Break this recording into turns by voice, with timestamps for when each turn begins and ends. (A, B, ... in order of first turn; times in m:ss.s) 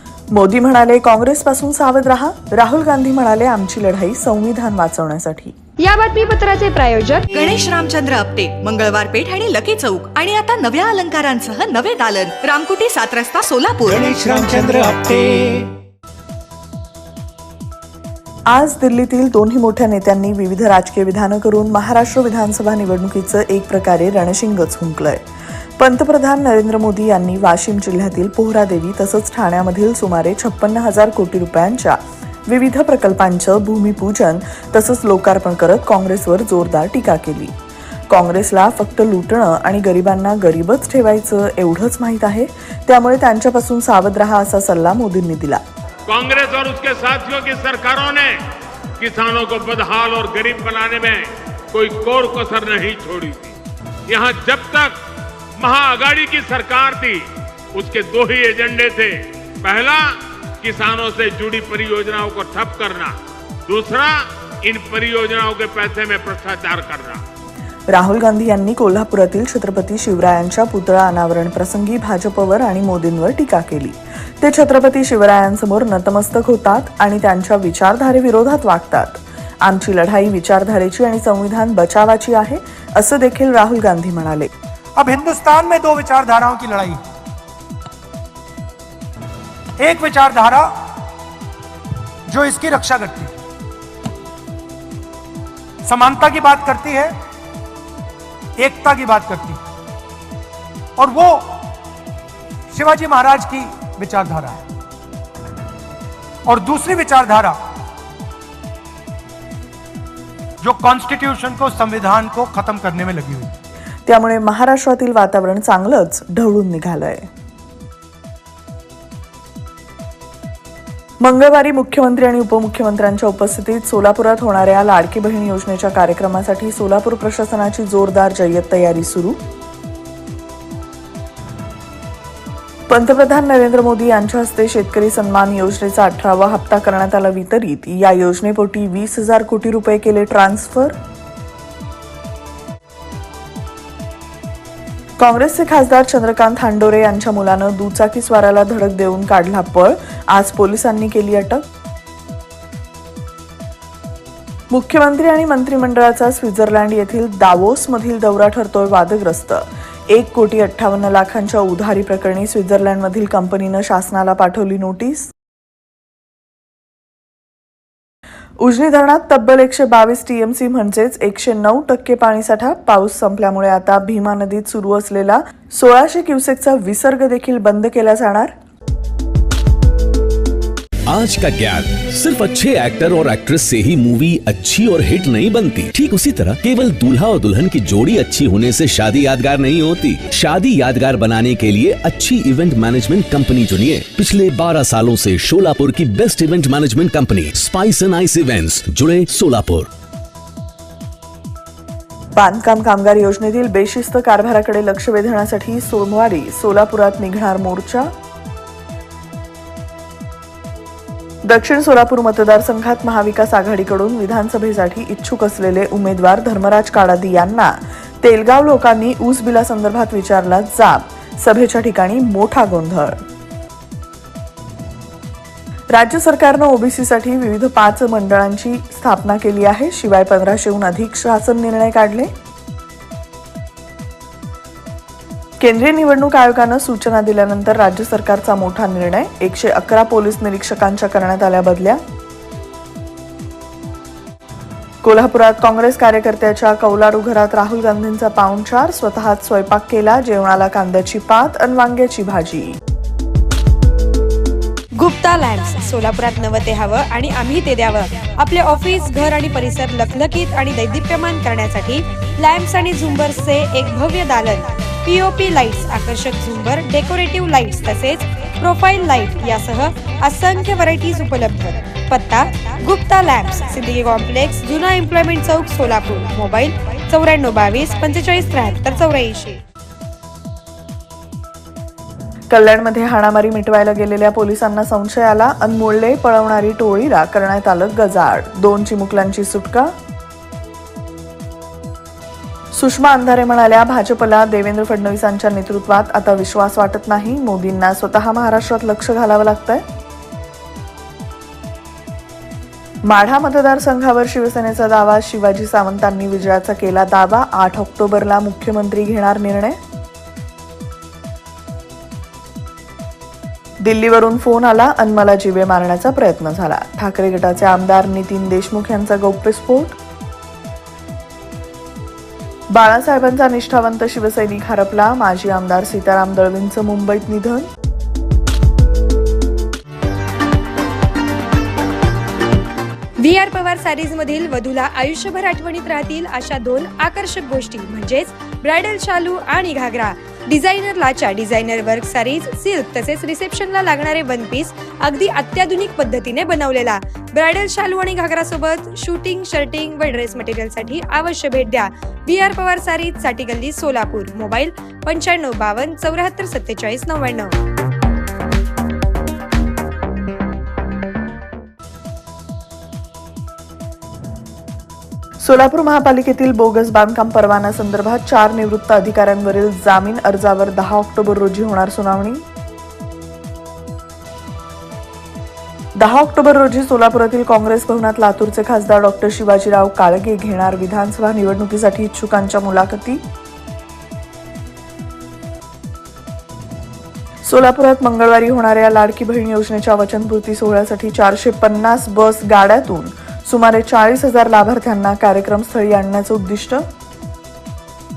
0:00.3-0:05.5 A
0:05.8-0:07.3 B
0:07.3-0:15.0 C
0:13.9-0:15.4 D
0:18.5-0:25.2 A
0:25.8-0:37.5 A
0:38.1-0:45.6 A
0:46.1-0:48.4 E
0:49.0-0:53.5 E
0:54.1-0:54.9 E
0:55.6-1:03.1 E
1:03.7-1:07.2 E
1:07.9-1:24.5 A
1:25.0-1:27.0 D
1:29.8-1:30.7 D
1:32.3-1:33.3 D
1:35.8-1:37.1 D
1:38.6-1:39.6 D
1:41.0-1:41.6 D
1:42.7-1:44.6 D
1:46.4-1:47.6 D
1:50.6-1:53.5 D
1:54.0-1:57.3 A
2:01.2-2:09.4 A
2:12.9-2:20.9 A
2:25.2-2:31.6 A
2:34.7-2:45.3 A
2:48.6-2:58.5 A
3:01.1-3:19.9 F
3:22.4-3:28.1 A
3:31.5-3:43.2 A
3:45.9-3:52.3 A
3:55.6-4:02.0 A
4:05.0-4:12.8 A
4:15.0-4:39.6 B
4:42.5-4:49.9 A
4:52.7-4:59.8 A
5:03.0-5:09.8 A
5:13.8-5:20.0 A
5:22.7-5:27.7 A
5:33.2-5:57.5 B
6:05.4-6:12.4 A
6:16.0-6:23.2 A
6:27.4-6:36.8 A